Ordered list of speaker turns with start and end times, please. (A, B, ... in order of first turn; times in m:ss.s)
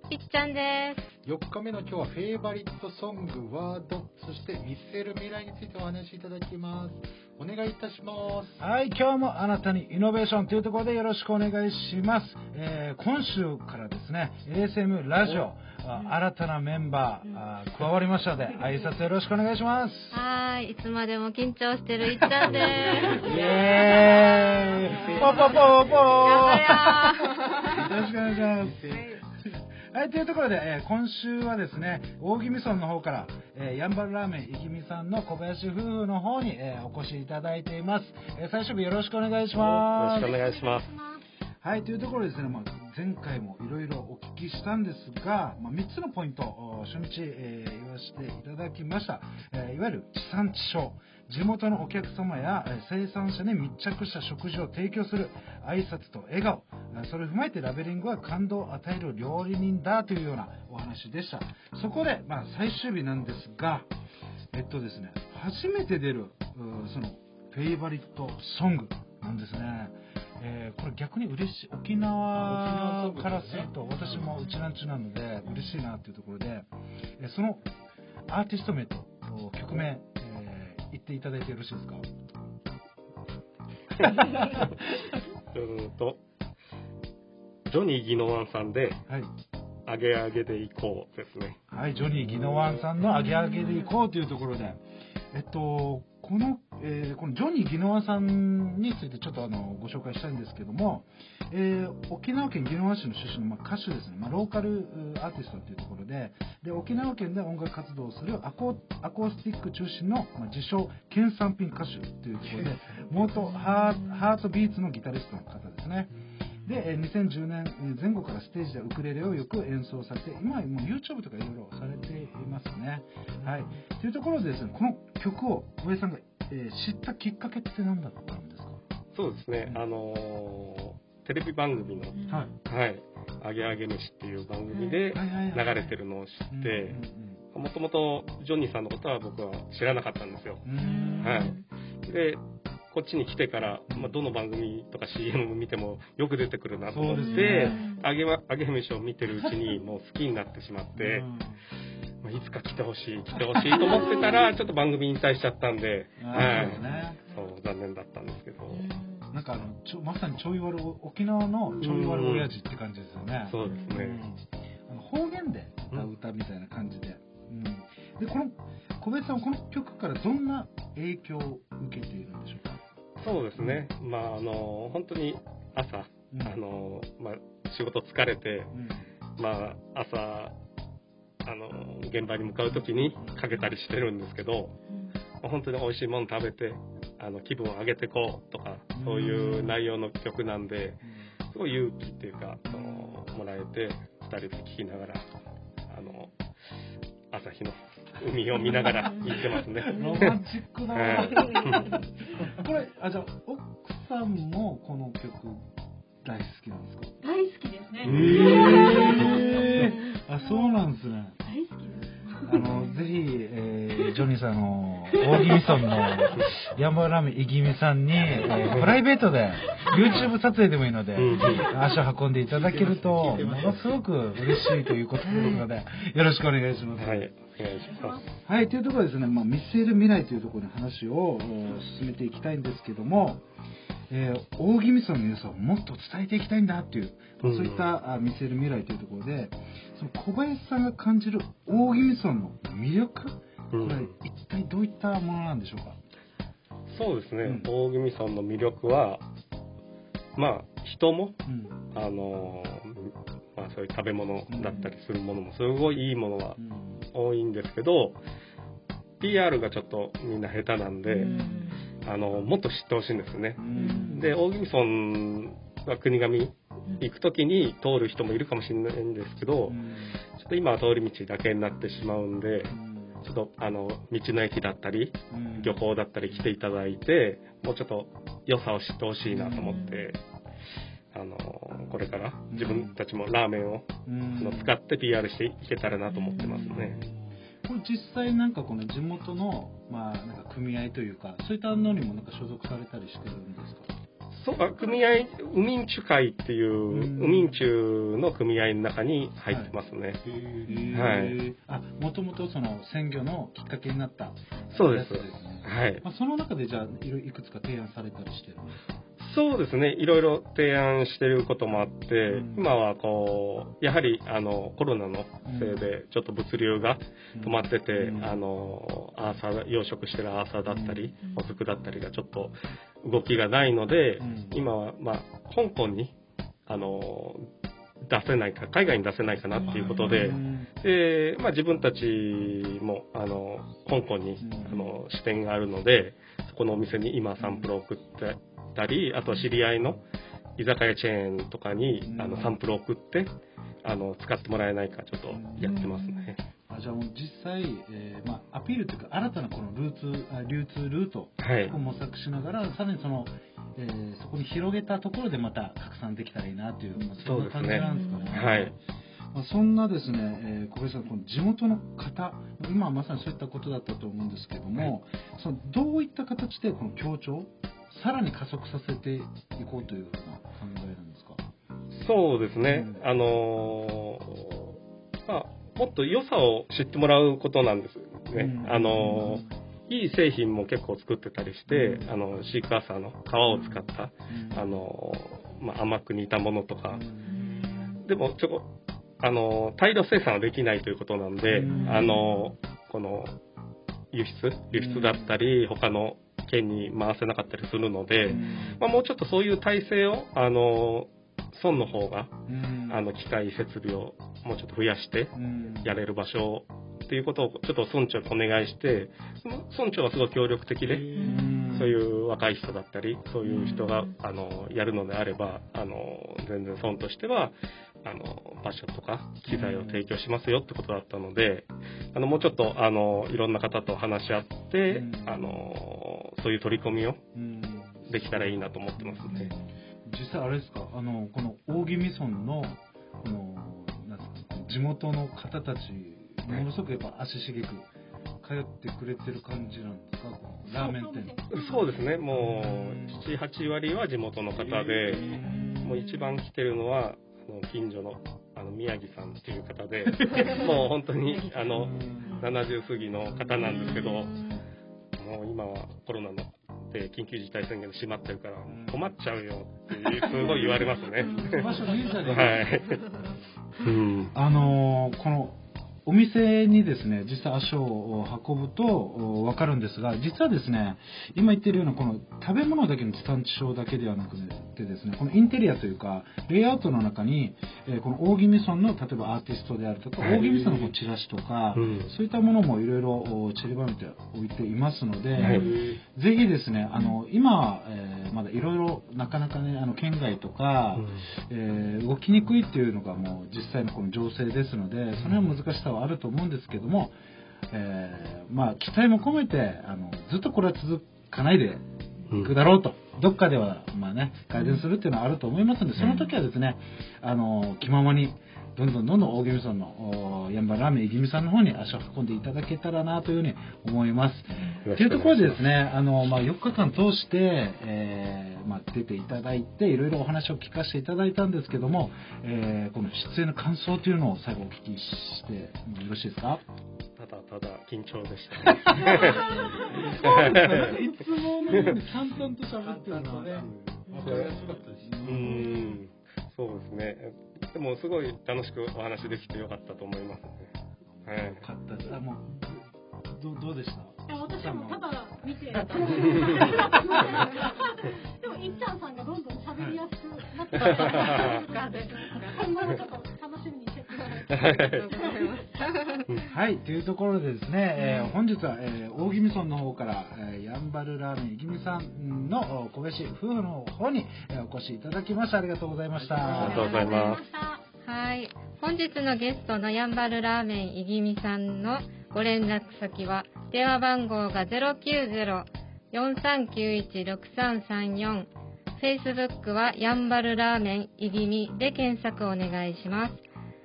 0:00.1-0:01.0 A
0:01.2-0:08.6 B
0:08.6-0:20.2 C
0:20.1-0:24.2 A
0:22.8-0:26.6 B
0:22.9-0:28.8 C
0:25.2-0:25.5 A
0:26.2-0:27.6 A
0:28.6-0:29.0 B
0:29.9-0:40.4 C
0:39.6-0:40.9 D
0:40.2-0:41.2 E
0:41.6-1:03.9 C
1:04.5-1:16.7 C
1:12.4-1:14.3 B
1:17.2-1:17.7 C
1:18.3-1:22.0 C
1:24.0-1:24.7 C
1:25.5-1:26.2 D
1:27.7-1:29.0 D
1:29.9-1:31.6 D
1:31.7-1:34.8 C
1:35.3-1:56.1 C
1:56.6-2:08.8 C
2:09.1-2:12.2 D
2:12.2-2:12.4 A
2:12.7-2:17.0 D
2:14.7-2:15.0 A
2:15.1-2:16.0 C
2:16.5-2:17.4 C
2:17.5-2:20.6 D
2:20.6-2:21.6 C
2:20.8-2:21.6 A
2:21.2-2:22.4 D
2:22.9-2:31.3 D
2:23.9-2:24.2 C
2:26.9-2:27.8 C
2:27.2-2:28.0 A
2:29.3-2:29.8 C
2:31.0-2:31.6 C
2:32.2-2:38.9 D
2:33.5-2:34.4 C
2:36.2-2:37.2 C
2:38.9-2:39.2 A
2:39.3-2:52.8 C
2:41.8-2:42.5 D
2:43.5-2:44.2 D
2:53.2-2:58.7 D
2:53.6-2:53.9 C
2:56.3-2:56.6 C
2:58.7-2:59.1 C
2:59.4-3:00.5 D
3:01.5-3:04.8 D
3:03.0-3:03.4 C
3:05.4-3:11.0 D
3:08.9-3:09.8 C
3:11.5-3:15.2 D
3:12.7-3:13.1 C
3:15.9-3:16.3 D
3:17.3-3:20.4 D
3:18.6-3:19.3 C
3:19.8-3:25.6 C
3:20.9-3:22.0 D
3:26.2-3:27.1 C
3:27.2-3:29.7 E
3:28.0-3:29.3 D
3:28.0-3:31.4 C
3:30.4-3:30.7 E
3:31.4-3:32.6 E
3:32.4-3:47.3 C
3:38.7-3:39.0 D
3:40.0-3:40.3 D
3:41.2-3:41.7 D
3:42.6-3:44.0 B
3:47.0-3:48.3 D
3:47.8-3:48.3 E
3:48.5-3:53.4 C
3:54.1-4:06.0 C
3:57.4-3:57.9 D
4:03.7-4:04.1 D
4:06.9-4:09.2 D
4:07.4-4:07.7 C
4:10.4-4:11.4 D
4:11.5-4:11.8 C
4:11.9-4:16.6 D
4:14.5-4:14.8 C
4:16.6-4:17.0 C
4:17.1-4:18.2 D
4:19.2-4:21.3 D
4:21.1-4:21.8 A
4:21.2-4:21.6 C
4:22.0-4:29.8 D
4:23.6-4:24.3 C
4:23.8-4:24.3 A
4:29.7-4:30.2 C
4:30.4-4:40.2 D
4:32.7-4:33.2 C
4:35.3-4:35.8 C
4:39.3-4:39.8 C
4:41.1-4:47.0 D
4:42.5-4:43.0 C
4:44.1-4:44.8 C
4:46.4-4:53.9 C
4:54.4-5:00.2 D
4:56.9-4:57.6 C
4:59.5-4:59.7 C
5:00.3-5:00.6 B
5:00.6-5:08.9 C
5:00.9-5:01.4 D
5:04.7-5:06.0 D
5:09.2-5:26.1 D
5:12.3-5:12.7 C
5:15.5-5:15.9 C
5:17.4-5:18.4 C
5:20.7-5:21.2 C
5:24.2-5:24.6 C
5:26.7-5:27.5 D
5:28.1-5:40.0 D
5:29.6-5:30.7 C
5:34.4-5:35.0 C
5:37.4-5:37.7 C
5:40.6-5:43.3 D
5:42.0-5:42.6 C
5:43.8-5:46.4 D
5:45.3-5:46.1 C
5:46.7-5:58.8 C
5:51.4-5:51.8 D
5:57.2-5:58.8 D
5:57.8-5:58.4 A
5:59.3-6:11.4 C
6:11.9-6:14.7 D
6:12.6-6:13.0 C
6:15.3-6:27.0 D
6:18.3-6:19.5 C
6:21.7-6:22.0 C
6:24.3-6:24.7 C
6:26.9-6:27.9 C
6:28.0-6:28.7 D
6:29.2-6:33.3 D
6:31.5-6:32.1 C
6:31.7-6:32.0 A
6:34.1-6:42.3 D
6:34.7-6:35.4 C
6:38.3-6:38.8 C
6:42.5-6:43.0 C
6:42.9-7:07.2 D
6:45.4-6:46.0 C
6:50.8-6:52.0 C
6:53.4-6:53.8 C
6:59.5-7:00.1 C
7:04.9-7:05.5 C
7:07.3-7:17.9 C
7:08.1-7:09.5 D
7:18.4-7:21.4 C
7:20.8-7:21.8 E
7:21.5-7:34.4 D
7:22.3-7:23.2 C
7:24.7-7:26.0 C
7:30.2-7:30.7 C
7:31.6-7:32.5 C
7:35.2-7:43.0 D
7:38.7-7:39.1 C
7:40.2-7:42.7 C
7:43.8-7:44.3 D
7:44.3-8:17.2 C
8:00.4-8:00.9 B
8:01.8-8:02.1 D
8:05.4-8:05.7 D
8:05.5-8:06.0 B
8:17.7-8:21.8 C
8:22.4-8:46.6 C
8:34.8-8:35.6 D
8:47.2-8:49.6 D
8:48.7-8:53.7 C
8:50.2-8:51.0 D
8:52.7-8:55.6 B
8:54.2-8:54.5 D
8:54.2-8:55.6 C
8:55.2-9:00.7 D
8:55.6-8:55.9 A
9:01.2-9:05.1 C
9:01.3-9:01.6 D
9:04.3-9:07.4 E
9:05.7-9:07.5 C
9:08.4-9:14.5 E
9:10.8-9:11.6 D
9:11.4-9:12.6 A
9:14.5-9:15.1 D
9:14.8-9:16.2 A
9:15.2-9:15.6 E
9:16.5-9:26.9 C
9:18.0-9:18.3 A
9:26.4-9:27.4 A
9:26.5-9:27.4 D
9:26.8-9:27.8 E
9:28.0-9:43.4 A